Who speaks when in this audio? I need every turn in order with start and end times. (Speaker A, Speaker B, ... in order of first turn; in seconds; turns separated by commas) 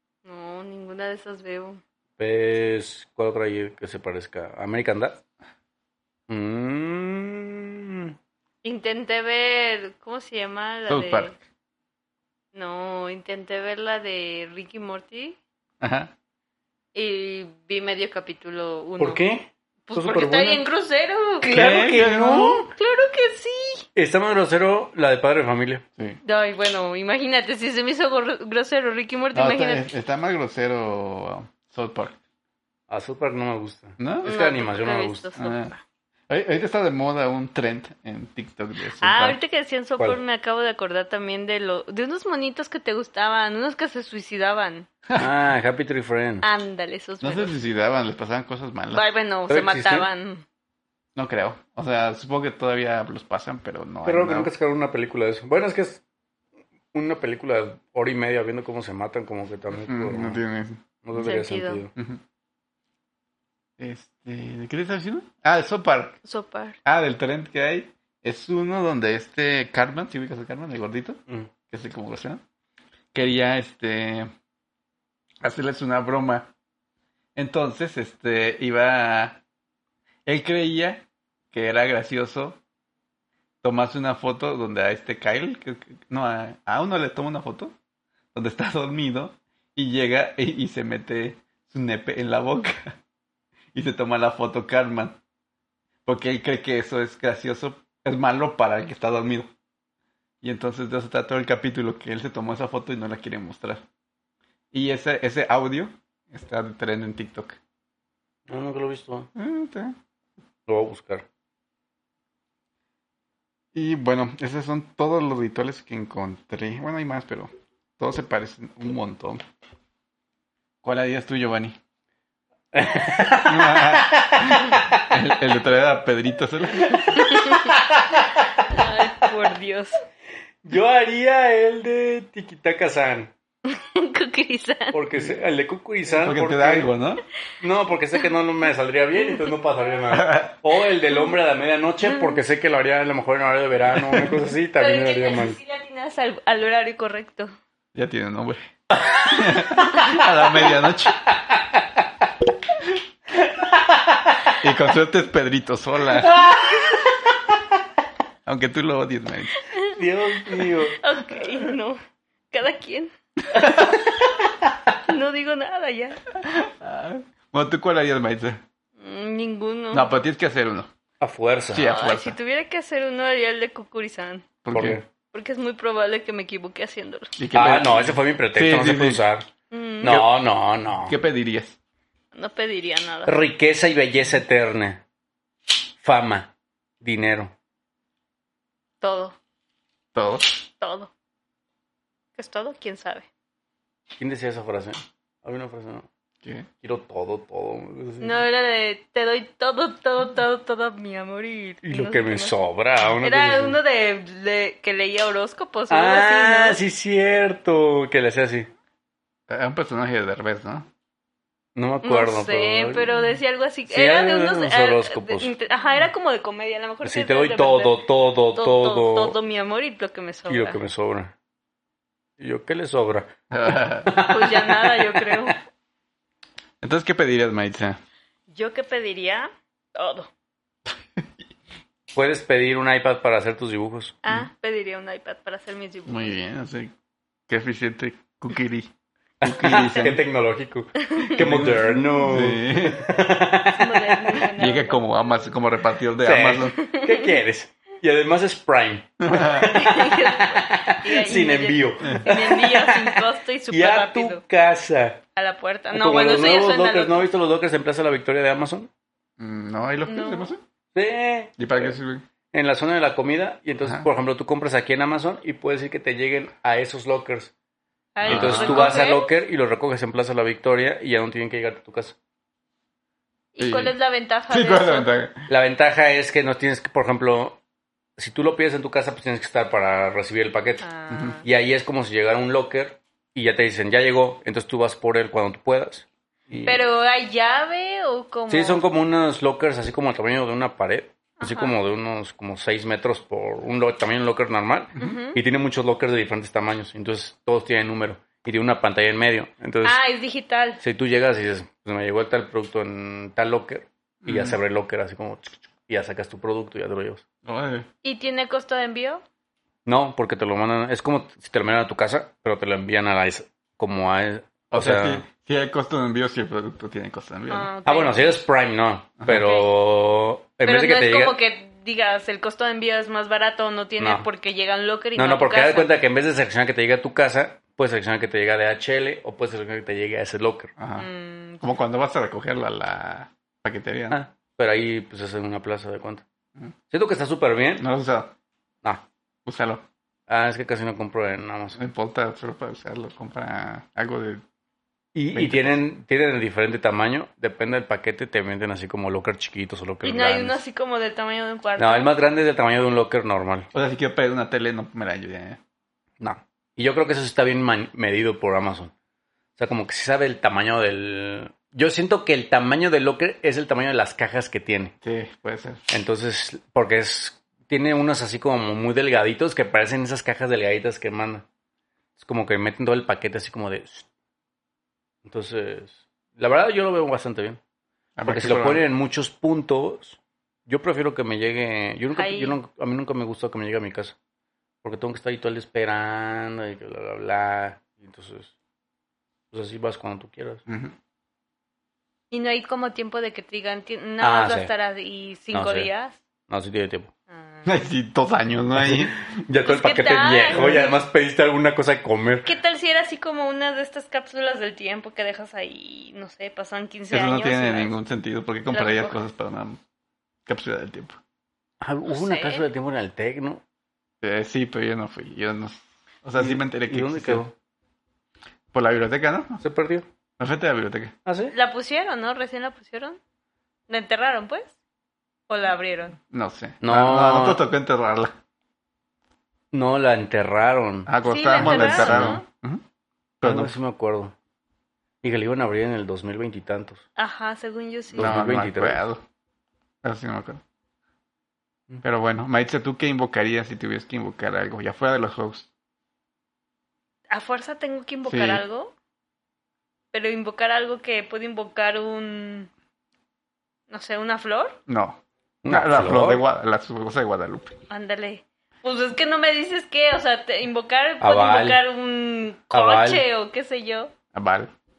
Speaker A: 0.2-1.8, Speaker B: 2.2-5.2, Speaker B: 6.3-8.2, Speaker A: 8.6-11.3, Speaker C: 10.9-11.3, Speaker A: 12.5-15.4, Speaker C: 15.8-16.1, Speaker A: 16.9-19.2, Speaker B: 19.0-20.6, Speaker A: 19.9-21.8, Speaker B: 21.4-22.7, Speaker C: 21.5-22.6, Speaker A: 22.6-23.9, Speaker B: 23.9-25.8, Speaker A: 26.2-29.9, Speaker C: 29.3-32.2, Speaker B: 32.9-35.3, Speaker C: 34.0-34.3, Speaker A: 34.2-35.8, Speaker C: 35.4-35.7, Speaker C: 36.3-39.4, Speaker A: 39.0-44.9, Speaker C: 45.1-45.3, Speaker B: 45.2-46.5, Speaker A: 46.4-47.6, Speaker C: 47.2-49.0, Speaker A: 48.9-50.4, Speaker B: 49.5-50.1, Speaker C: 51.2-54.5, Speaker B: 54.1-56.0, Speaker B: 56.9-60.4, Speaker C: 59.9-60.8, Speaker B: 61.0-61.9, Speaker A: 61.2-61.8, Speaker C: 62.0-62.2, Speaker C: 63.8-66.2, Speaker A: 66.2-66.8, Speaker C: 66.8-72.4, Speaker C: 73.1-74.3, Speaker C: 75.4-76.5, Speaker C: 77.4-79.4, Speaker C: 80.3-82.6, Speaker C: 83.6-87.7, Speaker C: 88.3-93.0, Speaker C: 93.7-95.2, Speaker C: 96.1-99.5, Speaker C: 100.4-103.8, Speaker C: 104.7-107.6, Speaker B: 108.5-109.3, Speaker C: 109.3-110.0, Speaker B: 110.7-111.3, Speaker C: 113.8-119.4, Speaker C: 120.8-121.8, Speaker B: 122.7-125.0, Speaker C: 123.5-127.2, Speaker A: 127.1-127.8, Speaker B: 127.5-128.8, Speaker A: 128.7-130.0, Speaker B: 130.6-133.3, Speaker A: 133.7-135.0, Speaker B: 134.9-136.9, Speaker C: 136.1-137.2, Speaker B: 137.6-145.6, Speaker C: 140.1-140.6, Speaker A: 142.1-142.4, Speaker C: 143.9-144.4, Speaker A: 144.8-147.5, Speaker C: 147.9-148.6, Speaker B: 149.0-150.7, Speaker C: 149.3-151.2, Speaker B: 151.3-151.6, Speaker B: 153.5-154.3, Speaker C: 154.6-156.4, Speaker B: 156.2-157.1, Speaker C: 158.5-159.6, Speaker B: 159.9-161.0, Speaker A: 160.6-162.0, Speaker A: 162.5-163.1, Speaker B: 163.7-164.3, Speaker A: 165.1-166.2, Speaker C: 166.4-168.6, Speaker A: 169.0-170.1, Speaker C: 169.9-170.9, Speaker B: 171.2-171.9, Speaker C: 171.7-172.4, Speaker A: 171.8-174.4, Speaker C: 174.6-175.0, Speaker B: 174.7-175.0, Speaker A: 175.3-177.3, Speaker C: 177.4-179.2, Speaker B: 177.5-179.5, Speaker A: 179.7-180.2, Speaker B: 180.0-181.2, Speaker C: 181.1-181.8, Speaker A: 182.3-183.4, Speaker B: 183.3-185.0, Speaker B: 186.0-186.5, Speaker B: 187.0-187.5, Speaker A: 189.0-189.4, Speaker C: 190.2-190.6, Speaker A: 190.8-191.1, Speaker A: 192.4-193.3, Speaker B: 194.2-196.1, Speaker C: 196.4-196.7, Speaker B: 196.8-198.4, Speaker A: 198.2-202.6, Speaker B: 201.8-203.8, Speaker A: 203.2-206.8, Speaker B: 205.9-208.7, Speaker C: 209.5-210.9, Speaker B: 211.8-213.2, Speaker A: 212.0-218.0, Speaker B: 213.9-215.5, Speaker B: 217.0-219.4, Speaker A: 218.6-220.8, Speaker B: 220.5-221.3, Speaker B: 222.4-223.3, Speaker C: 223.5-224.2, Speaker B: 224.0-225.5, Speaker A: 224.2-225.6, Speaker C: 226.8-228.0, Speaker A: 228.5-230.3, Speaker B: 232.1-234.2, Speaker A: 234.2-236.4, Speaker C: 236.1-236.9, Speaker C: 237.5-240.2, Speaker B: 239.4-244.0, Speaker A: 241.0-241.4, Speaker C: 241.3-243.1, Speaker A: 243.7-245.5, Speaker C: 244.6-246.8, Speaker B: 246.2-255.2, Speaker A: 246.8-247.4, Speaker C: 249.2-249.8, Speaker A: 249.7-254.4, Speaker A: 255.4-257.3, Speaker B: 255.9-258.9, Speaker C: 259.4-260.6, Speaker A: 260.1-260.5, Speaker B: 260.9-261.9, Speaker C: 261.6-262.2, Speaker B: 262.5-267.5, Speaker C: 263.8-264.1, Speaker A: 268.2-269.3, Speaker C: 268.3-269.1, Speaker B: 268.3-272.2, Speaker A: 273.6-275.1, Speaker C: 273.6-273.9, Speaker C: 274.5-275.5, Speaker B: 275.5-277.6, Speaker B: 278.2-280.9, Speaker A: 280.8-281.4, Speaker C: 281.1-281.4, Speaker B: 281.4-286.8, Speaker A: 286.6-288.9, Speaker B: 288.5-300.0, Speaker A: 291.4-291.7, Speaker A: 295.0-295.4, Speaker A: 299.8-300.8, Speaker B: 300.8-307.2, Speaker C: 304.2-304.6, Speaker C: 307.4-307.9, Speaker A: 308.0-309.2, Speaker B: 309.9-315.2, Speaker C: 314.7-317.7, Speaker A: 317.5-318.4, Speaker B: 317.9-321.4, Speaker A: 319.3-319.7, Speaker A: 320.6-325.9, Speaker B: 324.0-324.3, Speaker B: 325.2-330.7, Speaker C: 330.8-331.1, Speaker A: 331.0-331.7, Speaker C: 331.6-334.2, Speaker B: 334.1-336.2, Speaker B: 336.9-337.9, Speaker C: 337.8-338.3, Speaker C: 339.5-339.8, Speaker B: 340.3-341.8, Speaker C: 341.8-344.4, Speaker B: 345.1-350.6, Speaker C: 345.3-345.8, Speaker A: 350.0-352.1, Speaker B: 351.8-353.7, Speaker C: 353.7-355.6, Speaker B: 356.2-358.9, Speaker B: 359.6-364.9, Speaker C: 365.0-365.8, Speaker B: 365.9-371.4, Speaker B: 372.2-374.1, Speaker B: 375.2-377.6, Speaker C: 378.2-378.8, Speaker B: 378.3-384.2, Speaker A: 382.1-382.6, Speaker B: 384.8-388.5, Speaker B: 389.5-390.6, Speaker C: 390.7-390.9, Speaker A: 392.3-396.2, Speaker B: 394.2-394.7, Speaker B: 395.5-395.9, Speaker B: 396.5-397.1, Speaker A: 397.3-397.7, Speaker C: 397.6-399.2, Speaker B: 398.8-402.5, Speaker A: 399.6-401.0, Speaker C: 400.5-400.9, Speaker A: 402.5-408.0, Speaker C: 407.1-409.8, Speaker A: 408.7-409.2, Speaker C: 410.5-411.2, Speaker B: 411.8-413.6, Speaker A: 412.1-412.6, Speaker C: 414.2-417.4, Speaker B: 416.4-417.5, Speaker C: 418.7-419.6, Speaker B: 419.6-420.1, Speaker C: 420.4-421.1, Speaker B: 421.3-421.5, Speaker A: 421.5-423.2, Speaker A: 423.9-424.7, Speaker A: 425.5-426.2, Speaker C: 426.3-428.3, Speaker B: 426.8-427.6, Speaker B: 429.7-432.4, Speaker C: 431.1-432.8, Speaker A: 431.2-432.5, Speaker C: 433.4-433.8, Speaker B: 433.4-434.3, Speaker B: 435.2-437.0, Speaker A: 437.2-438.3, Speaker B: 438.1-439.0, Speaker C: 438.2-439.2, Speaker C: 440.0-440.6, Speaker C: 442.0-445.7, Speaker A: 447.3-448.9, Speaker C: 448.3-448.6, Speaker A: 450.1-452.7, Speaker A: 453.9-454.8, Speaker C: 454.9-457.8, Speaker B: 455.6-456.4, Speaker A: 457.9-464.1, Speaker B: 461.2-461.8, Speaker B: 462.7-463.2, Speaker C: 464.3-464.7